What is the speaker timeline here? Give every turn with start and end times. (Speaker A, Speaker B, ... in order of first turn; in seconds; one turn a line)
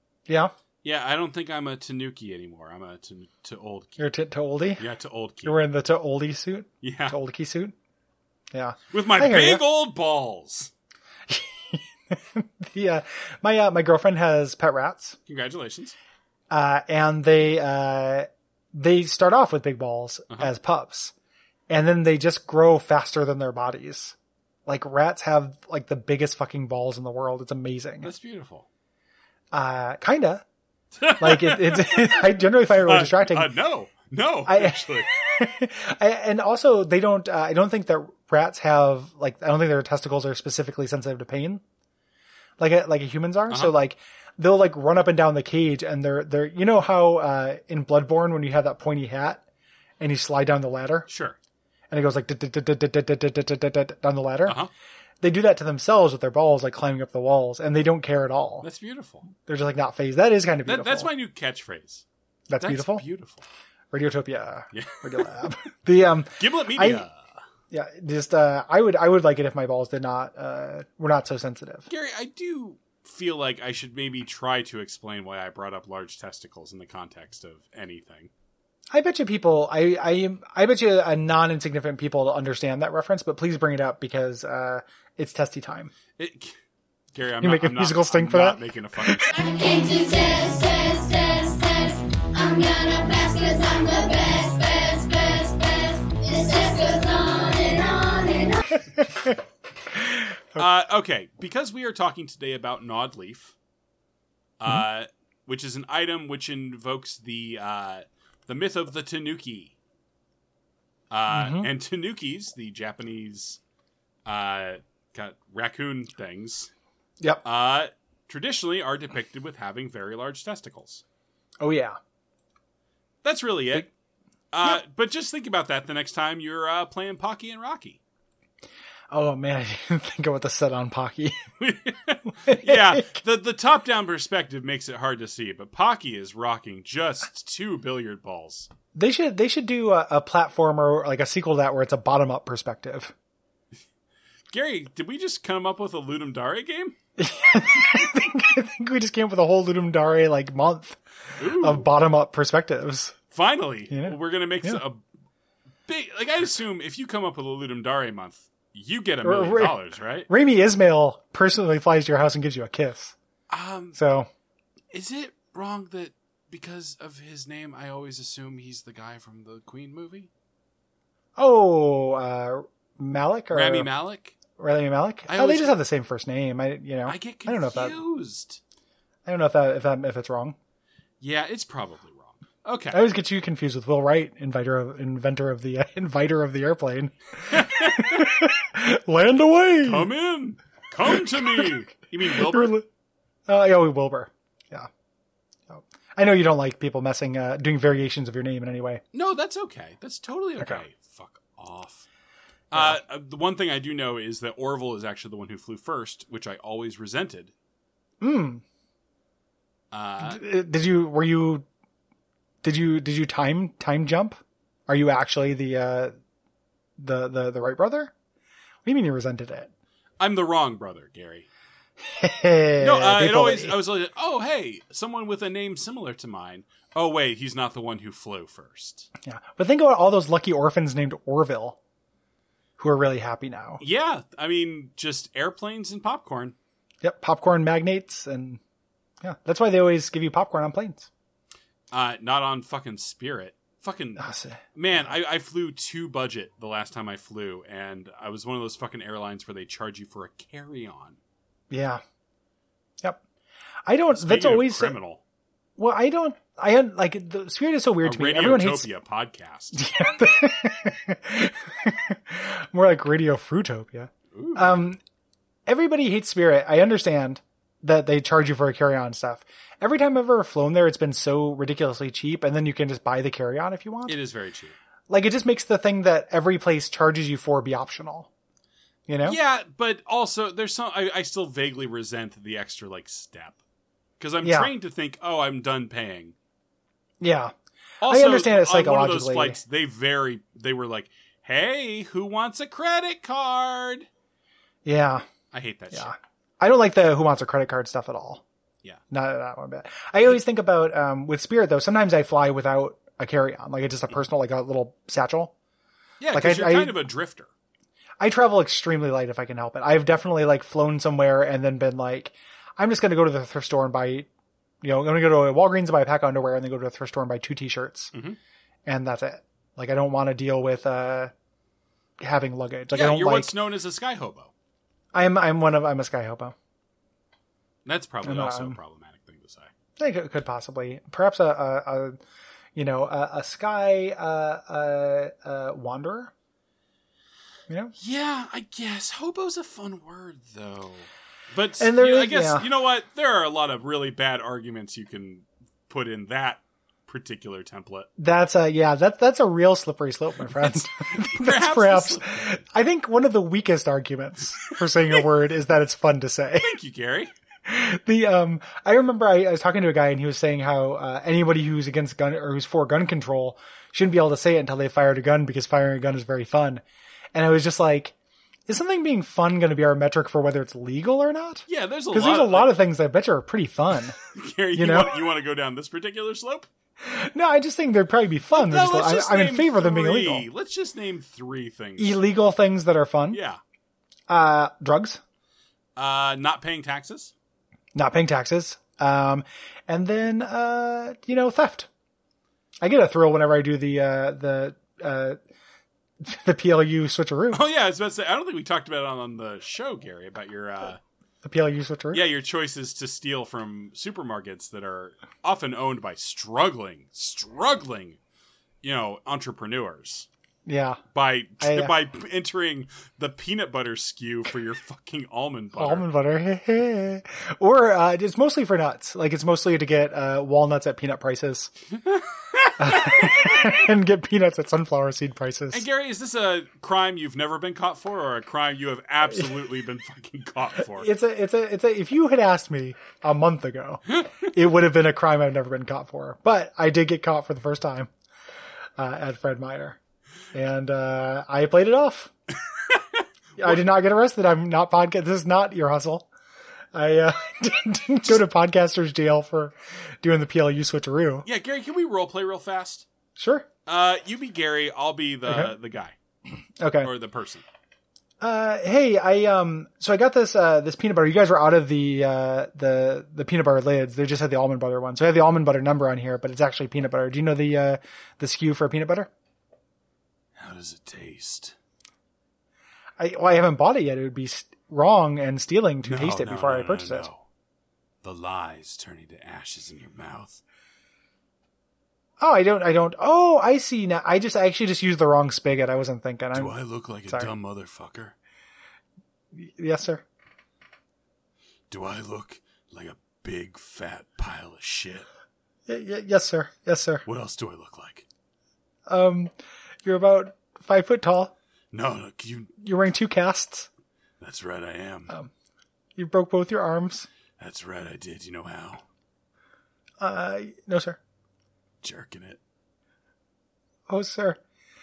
Speaker A: 0.3-0.5
Speaker B: 0.8-4.0
Speaker A: 4.0-4.8
Speaker B: 4.8-5.5
Speaker A: 5.4-7.7
Speaker B: 6.8-7.2
Speaker A: 8.5-9.6
Speaker B: 8.9-10.7
Speaker A: 11.3-15.2
Speaker B: 15.3-15.9
Speaker A: 16.5-21.1
Speaker A: 21.7-24.2
Speaker A: 24.7-28.1
Speaker B: 28.0-28.7
Speaker A: 29.5-30.4
Speaker B: 31.0-35.1
Speaker A: 31.2-33.5
Speaker A: 34.5-41.6
Speaker A: 42.6-49.4
Speaker B: 43.5-43.7
Speaker A: 50.0-51.1
Speaker B: 51.1-51.4
Speaker A: 51.9-54.6
Speaker B: 54.5-54.7
Speaker A: 55.2-58.7
Speaker B: 58.6-59.3
Speaker A: 59.4-61.1
Speaker B: 60.6-62.0
Speaker A: 62.5-63.0
Speaker B: 62.6-63.5
Speaker A: 63.9-67.1
Speaker B: 64.7-65.3
Speaker B: 66.4-67.2
Speaker A: 67.7-71.9
Speaker B: 71.9-78.3
Speaker A: 78.9-85.9
Speaker B: 86.2-86.6
Speaker B: 87.1-89.3
Speaker A: 87.4-89.3
Speaker C: 89.3-98.6
Speaker A: 98.8-99.3
Speaker A: 100.0-100.7
Speaker B: 100.6-103.5
Speaker B: 104.6-109.7
Speaker B: 111.1-113.6
Speaker A: 111.3-111.7
Speaker B: 114.2-116.7
Speaker A: 117.2-117.4
Speaker B: 117.4-121.0
Speaker A: 121.6-122.0
Speaker B: 123.2-123.9
Speaker B: 124.5-128.0
Speaker A: 129.1-131.4
Speaker B: 131.6-138.7
Speaker A: 132.4-133.1
Speaker A: 138.9-143.1
Speaker B: 144.5-146.9
Speaker A: 147.2-153.2
Speaker B: 151.4-151.9
Speaker B: 153.3-155.0
Speaker A: 153.9-154.8
Speaker B: 155.9-160.3
Speaker A: 159.2-159.8
Speaker A: 160.3-163.2
Speaker B: 163.5-164.0
Speaker A: 163.9-164.3
Speaker B: 164.9-170.3
Speaker A: 171.4-173.9
Speaker B: 173.5-174.4
Speaker A: 174.6-178.0
Speaker B: 175.3-175.8
Speaker B: 177.1-178.6
Speaker A: 179.2-180.6
Speaker B: 181.2-183.0
Speaker A: 182.9-190.1
Speaker B: 187.5-188.3
Speaker B: 189.8-192.8
Speaker A: 191.1-192.9
Speaker A: 193.5-194.9
Speaker A: 195.7-199.0
Speaker B: 199.1-202.1
Speaker B: 202.7-207.5
Speaker A: 208.2-208.6
Speaker B: 209.9-210.4
Speaker A: 210.2-211.7
Speaker A: 212.6-216.1
Speaker A: 217.0-218.1
Speaker A: 218.8-219.7
Speaker B: 220.2-221.5
Speaker A: 222.0-223.8
Speaker B: 222.8-229.1
Speaker A: 229.2-231.8
Speaker A: 232.8-233.8
Speaker B: 233.8-236.6
Speaker A: 237.0-238.6
Speaker A: 239.2-241.1
Speaker B: 241.9-244.2
Speaker A: 244.2-244.6
Speaker B: 244.8-251.2
Speaker A: 251.7-252.0
Speaker A: 253.9-254.9
Speaker B: 254.1-255.2
Speaker A: 255.8-258.9
Speaker B: 258.0-259.9
Speaker A: 259.8-265.0
Speaker B: 264.3-264.8
Speaker A: 265.7-274.2
Speaker B: 274.1-274.8
Speaker A: 275.1-278.3
Speaker A: 279.1-279.4
Speaker B: 279.2-283.6
Speaker B: 284.2-286.4
Speaker A: 284.4-284.7
Speaker A: 287.2-287.5
Speaker B: 288.0-294.1
Speaker A: 288.0-289.6
Speaker A: 294.9-295.2
Speaker B: 295.5-296.1
Speaker A: 295.9-298.4
Speaker A: 299.1-305.5
Speaker B: 306.2-307.5
Speaker A: 306.3-307.0
Speaker A: 308.2-314.3
Speaker A: 314.8-318.1
Speaker B: 318.1-318.4
Speaker A: 318.9-321.3
Speaker A: 322.2-323.5
Speaker B: 322.9-324.5
Speaker A: 325.1-326.6
Speaker B: 327.9-329.7
Speaker A: 328.2-328.8
Speaker A: 330.0-332.2
Speaker A: 332.8-336.3
Speaker A: 337.7-337.9
Speaker B: 338.0-348.1
Speaker A: 341.8-342.7
Speaker A: 348.2-356.8
Speaker B: 350.5-352.6
Speaker B: 356.6-357.3
Speaker A: 357.7-366.8
Speaker A: 367.3-368.1
Speaker A: 368.7-374.2
Speaker B: 371.7-372.8
Speaker B: 374.3-376.7
Speaker A: 374.7-375.2
Speaker A: 377.0-380.5
Speaker B: 378.5-382.2
Speaker A: 382.0-383.4
Speaker B: 383.3-383.6
Speaker A: 384.3-385.2
Speaker B: 385.9-387.3
Speaker A: 387.9-391.9
Speaker A: 392.8-395.4
Speaker A: 396.2-397.6
Speaker B: 397.5-401.0
Speaker A: 401.4-402.2
Speaker B: 402.1-408.2
Speaker B: 408.8-410.3
Speaker A: 410.7-411.0
Speaker B: 411.1-416.1
Speaker A: 411.6-411.9
Speaker A: 415.8-421.7
Speaker B: 422.1-423.8
Speaker A: 422.8-425.9
Speaker B: 425.7-431.1
Speaker A: 430.9-438.1
Speaker A: 439.0-440.0
Speaker A: 440.5-442.3
Speaker B: 443.6-443.8
Speaker A: 443.6-446.3
Speaker A: 446.9-451.4
Speaker B: 451.4-453.1
Speaker A: 453.4-453.7
Speaker B: 453.9-456.1
Speaker A: 455.4-455.7
Speaker A: 456.8-457.1
Speaker B: 457.0-457.6
Speaker A: 458.4-469.3
Speaker B: 470.6-471.8
Speaker A: 473.2-477.3
Speaker B: 476.0-477.4
Speaker B: 478.2-480.6
Speaker A: 482.4-486.8
Speaker B: 486.5-488.4
Speaker A: 489.5-490.2
Speaker B: 491.9-495.3
Speaker A: 495.9-497.2
Speaker B: 497.3-498.3
Speaker A: 499.1-499.5
Speaker A: 500.1-501.5
Speaker B: 501.9-502.7
Speaker A: 502.8-503.9
Speaker B: 504.4-505.3
Speaker A: 506.2-507.3
Speaker B: 507.6-509.0
Speaker A: 510.2-511.2
Speaker B: 512.0-512.6
Speaker A: 514.1-514.6